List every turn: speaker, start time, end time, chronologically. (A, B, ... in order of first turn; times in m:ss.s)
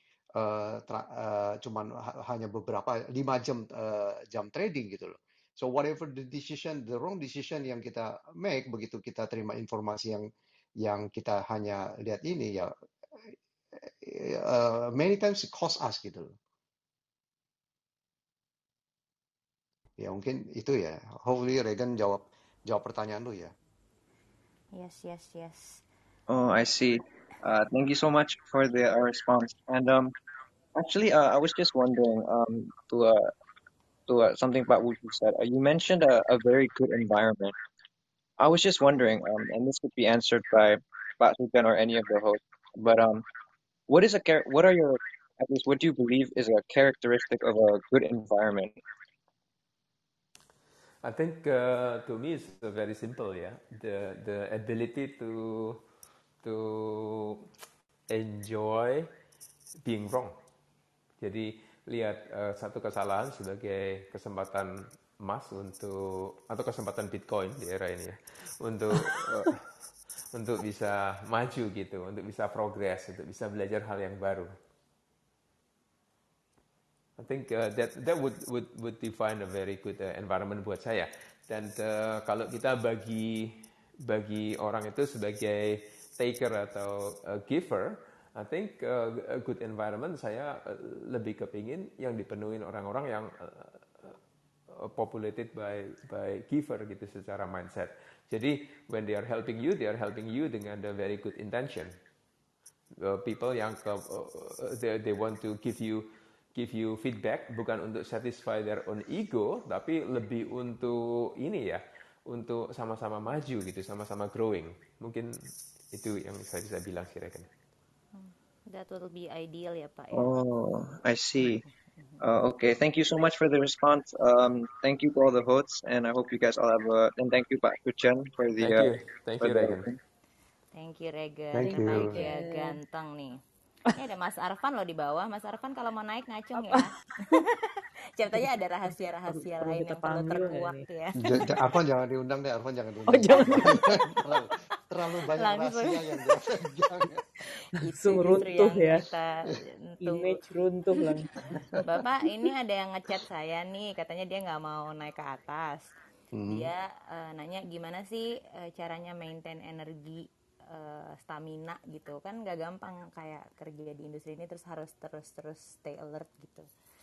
0:00.4-0:10.3 A
0:10.8-0:12.7 A
0:13.3-0:16.4 A
0:20.0-0:23.5 A
0:24.7-0:25.8 B
0:26.3-0:30.1 C
0:30.7-0:33.3 C
0:34.1-0:37.5 C
0:38.4-0:43.3 C
0:43.9-0:48.8 C
0:51.0-0:55.8 D
0:56.4-0:57.5 D
0:58.1-0:59.1 D
0:59.8-1:00.3 D
1:01.2-1:04.7 D
1:05.2-1:09.6 D
1:10.3-1:14.5 D
1:17.2-1:23.4 D
1:24.0-1:34.2 D
1:34.8-1:41.9 D
1:43.0-1:55.3 D
1:55.9-1:57.5 D
1:58.1-2:00.3 B
2:00.1-2:01.6 C
2:02.2-2:10.0 C
2:08.6-2:09.9 D
2:10.7-2:13.4 B
2:11.5-2:12.2 A
2:11.6-2:12.8 E
2:13.9-2:17.6 B
2:16.5-2:17.4 E
2:18.2-2:21.2 B
2:19.3-2:20.8 E
2:21.2-2:27.6 A
2:23.1-2:24.0 E
2:23.4-2:23.7 B
2:25.3-2:26.3 B
2:27.6-2:30.4 B
2:27.9-2:29.0 E
2:30.0-2:31.8 E
2:31.8-2:35.9 B
2:36.3-2:36.7 A
2:36.5-2:46.7 B